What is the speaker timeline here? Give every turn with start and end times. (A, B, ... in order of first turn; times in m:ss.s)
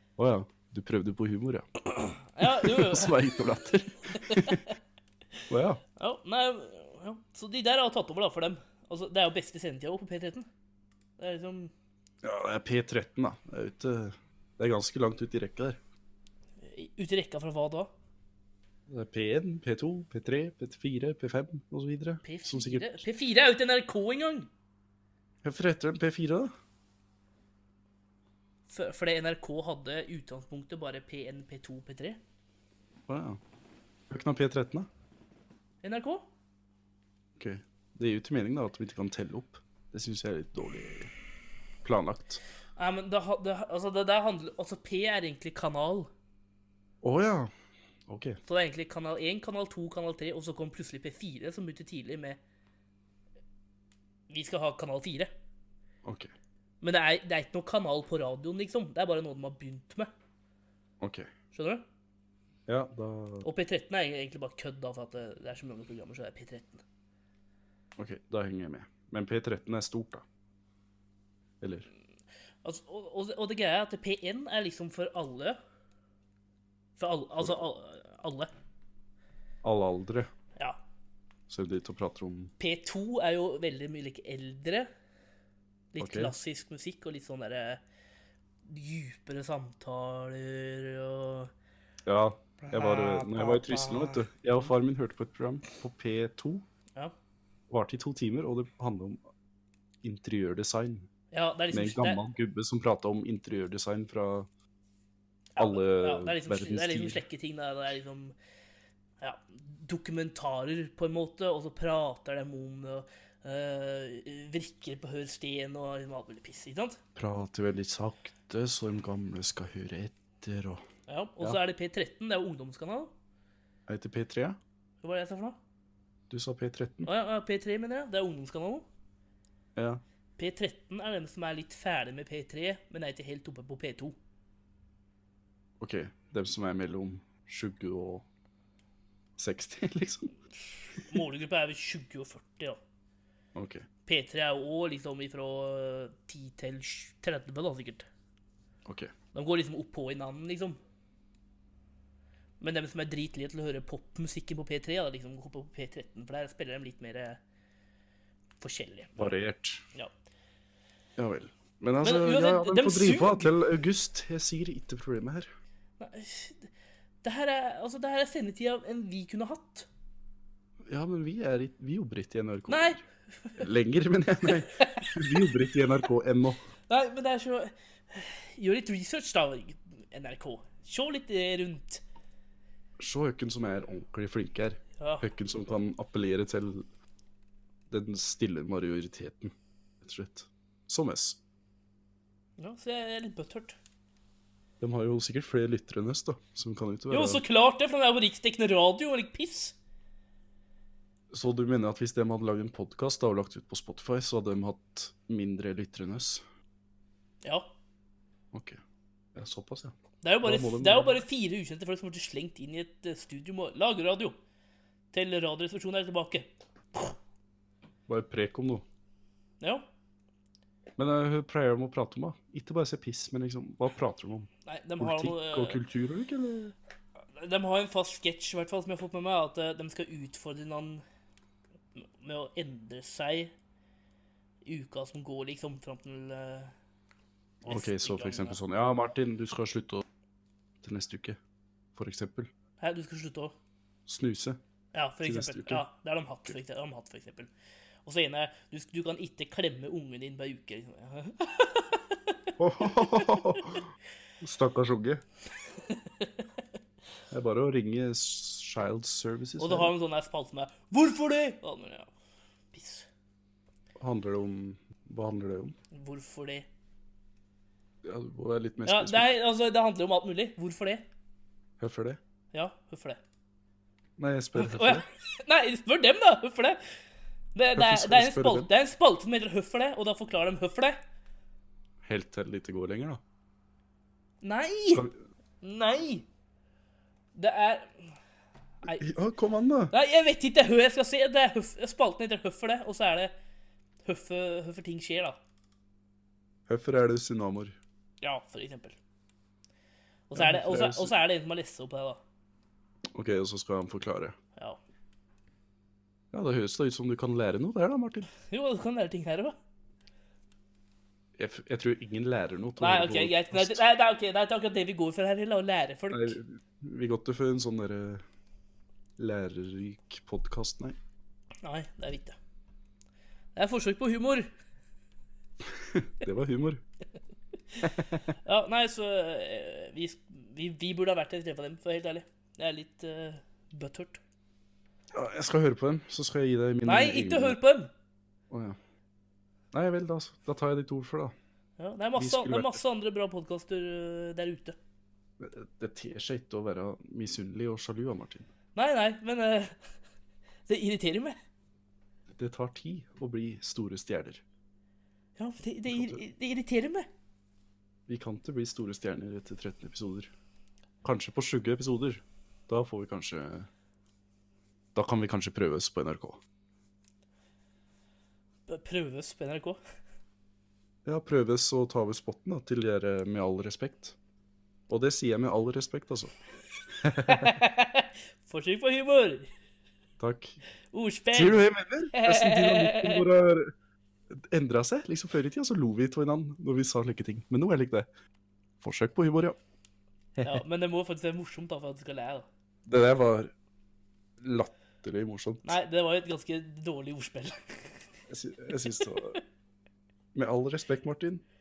0:00.2-0:01.7 A
0:02.3-0:03.2 B
0:02.4-0:04.6 A
0:04.2-0:04.6 B
0:05.5-0:05.8 A
0:06.0-0:10.5 B
0:11.2-0:11.7 B
0:12.2-0:15.8 A
0:16.6-0:17.9 B
0:18.9-0:23.0 A
0:22.2-0:24.5 B
0:25.4-0:26.5 A
0:28.7-0:32.2 B
0:33.1-0:33.4 A
0:34.1-0:34.9 A
0:35.8-0:36.3 B
0:37.4-0:41.1 A
0:41.8-0:42.4 A
0:42.8-0:46.1 B
0:47.0-0:47.5 A
0:48.1-0:48.4 A
0:48.5-0:52.4 B
0:54.3-0:55.3 B
0:56.0-0:56.3 A
0:56.8-1:00.1 B
1:01.0-1:01.3 A
1:01.5-1:01.8 B
1:02.7-1:03.5 A
1:03.4-1:06.8 B
1:08.0-1:10.2 A
1:11.6-1:11.9 A
1:12.6-1:15.6 B
1:17.0-1:18.5 B
1:19.6-1:20.3 A
1:21.5-1:22.5 A
1:22.6-1:24.9 B
1:25.9-1:27.8 B
1:26.0-1:26.3 A
1:28.6-1:31.5 B
1:32.1-1:36.6 A
1:32.6-1:34.2 B
1:37.7-1:39.2 A
1:40.0-1:41.1 A
1:41.3-1:42.2 B
1:41.7-1:44.5 A
1:45.6-1:48.4 B
1:45.6-1:47.2 A
1:49.2-1:57.0 B
1:57.2-2:00.8 A
2:01.1-2:03.1 B
2:03.9-2:04.6 A
2:05.0-2:05.6 B
2:06.3-2:07.1 A
2:07.0-2:08.9 B
2:09.8-2:10.0 A
2:10.4-2:14.2 B
2:15.8-2:18.2 A
2:19.4-2:20.3 A
2:21.0-2:22.8 B
2:23.6-2:23.9 A
2:24.1-2:28.1 B
2:28.9-2:29.1 A
2:29.3-2:30.8 B
2:32.6-2:37.4 B
2:38.6-2:39.3 B
2:39.2-2:39.8 A
2:41.2-2:45.5 A
2:42.0-2:43.5 B
2:46.0-2:46.7 B
2:47.2-2:49.9 B
2:50.9-2:53.0 A
2:52.7-2:53.6 B
2:53.6-2:56.6 A
2:54.5-2:55.4 B
2:56.9-3:02.0 B
3:03.0-3:06.9 A
3:05.0-3:05.3 B
3:07.9-3:11.4 A
3:12.6-3:13.8 B
3:14.8-3:17.4 A
3:17.1-3:19.8 B
3:21.3-3:26.4 A
3:28.5-3:28.8 A
3:29.4-3:31.2 A
3:30.2-3:34.4 B
3:35.1-3:37.2 B
3:38.1-3:38.8 A
3:41.0-3:46.7 A
3:44.7-3:45.8 B
3:47.4-3:51.0 B
3:52.0-3:53.5 B
3:54.6-3:56.7 B
3:57.6-4:00.0 A
3:57.7-3:58.6 B
4:00.8-4:01.4 A
4:02.0-4:02.5 A
4:02.8-4:03.6 B
4:04.1-4:04.6 A
4:04.9-4:07.5 B
4:05.2-4:05.8 A
4:08.1-4:13.6 B
4:12.6-4:13.9 A
4:14.4-4:15.2 A
4:17.3-4:19.9 A
4:19.6-4:22.1 B
4:22.7-4:23.1 B
4:24.0-4:25.8 A
4:25.9-4:26.7 B
4:28.0-4:29.3 A
4:28.8-4:31.0 B
4:31.8-4:32.2 A
4:32.5-4:33.2 B
4:34.2-4:35.0 A
4:34.6-4:36.8 B
4:37.6-4:41.0 B
4:37.8-4:38.7 A
4:42.0-4:43.2 A
4:44.4-4:45.1 B
4:45.6-4:46.2 B
4:47.4-4:48.0 B
4:48.9-4:49.9 A
4:49.9-4:53.3 B
4:54.0-4:55.4 B
4:56.7-4:57.8 A
4:58.2-4:59.0 B
5:00.3-5:02.2 B
5:00.3-5:01.1 A
5:03.1-5:04.4 A
5:06.3-5:08.3 A
5:08.5-5:09.6 B
5:11.4-5:13.8 A
5:12.8-5:16.4 B
5:16.1-5:18.2 A
5:19.2-5:21.0 A
5:21.6-5:22.4 B
5:23.6-5:24.5 B
5:25.8-5:26.8 A
5:27.8-5:28.3 A
5:28.4-5:34.2 B
5:35.1-5:37.6 A
5:36.9-5:37.9 B
5:38.5-5:38.8 A
5:39.7-5:41.3 A
5:41.8-5:44.8 B
5:42.2-5:42.8 A
5:45.4-5:48.5 A
5:48.8-5:49.8 B
5:50.7-5:51.4 B
5:52.3-5:54.4 A
5:55.4-5:57.1 B
5:55.9-5:56.2 A
5:58.1-6:00.3 A
6:01.0-6:03.7 A
6:05.0-6:06.4 A
6:08.7-6:09.8 B
6:11.0-6:14.2 A
6:14.9-6:16.3 A
6:17.0-6:17.6 A
6:17.3-6:19.5 B
6:20.2-6:20.6 A
6:20.9-6:23.2 B
6:21.3-6:23.7 A
6:24.3-6:28.1 A
6:28.8-6:29.6 A
6:30.4-6:30.6 A
6:30.4-6:32.5 B
6:32.9-6:33.5 A
6:34.4-6:35.8 A
6:35.6-6:37.9 B
6:38.3-6:39.4 A
6:40.3-6:41.4 A